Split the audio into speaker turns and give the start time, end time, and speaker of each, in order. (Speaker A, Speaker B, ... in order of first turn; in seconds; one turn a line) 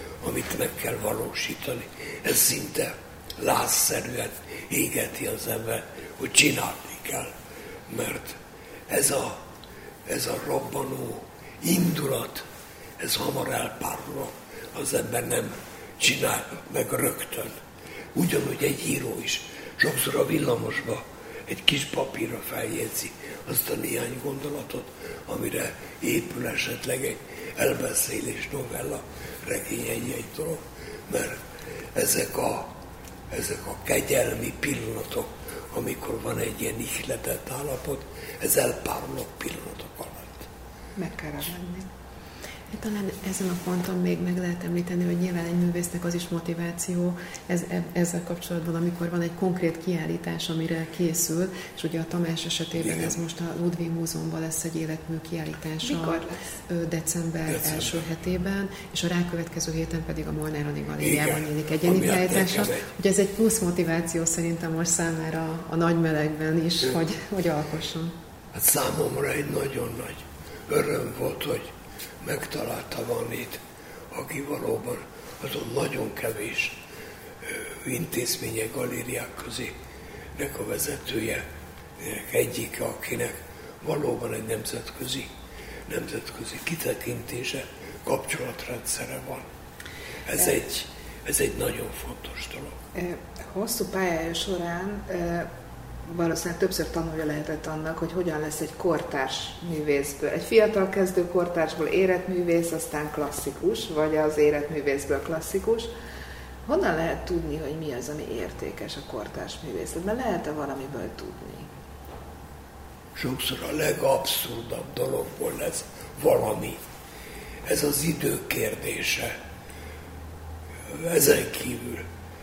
Speaker A: 0.2-7.3
Speaker A: 7.9-9.4
Speaker A: 10.1-12.4
Speaker A: 13.0-17.5
Speaker A: 18.1-31.4
Speaker A: 31.9-32.7
Speaker A: 33.3-40.5
Speaker B: 41.0-41.9
Speaker C: 42.7-68.1
Speaker A: 52.8-53.1
Speaker B: 55.8-56.4
Speaker A: 57.5-58.0
Speaker A: 61.0-62.8
Speaker A: 68.5-71.7
Speaker A: 72.2-73.6
Speaker A: 74.1-76.8
Speaker A: 77.5-79.7
Speaker A: 80.3-81.4
Speaker A: 82.0-85.3
Speaker A: 85.9-89.5
Speaker A: 90.2-92.8
Speaker B: 92.9-95.5
Speaker B: 96.0-105.9
Speaker B: 106.7-111.7
Speaker A: 113.2-116.8
Speaker A: 117.6-119.3
Speaker A: 120.9-122.0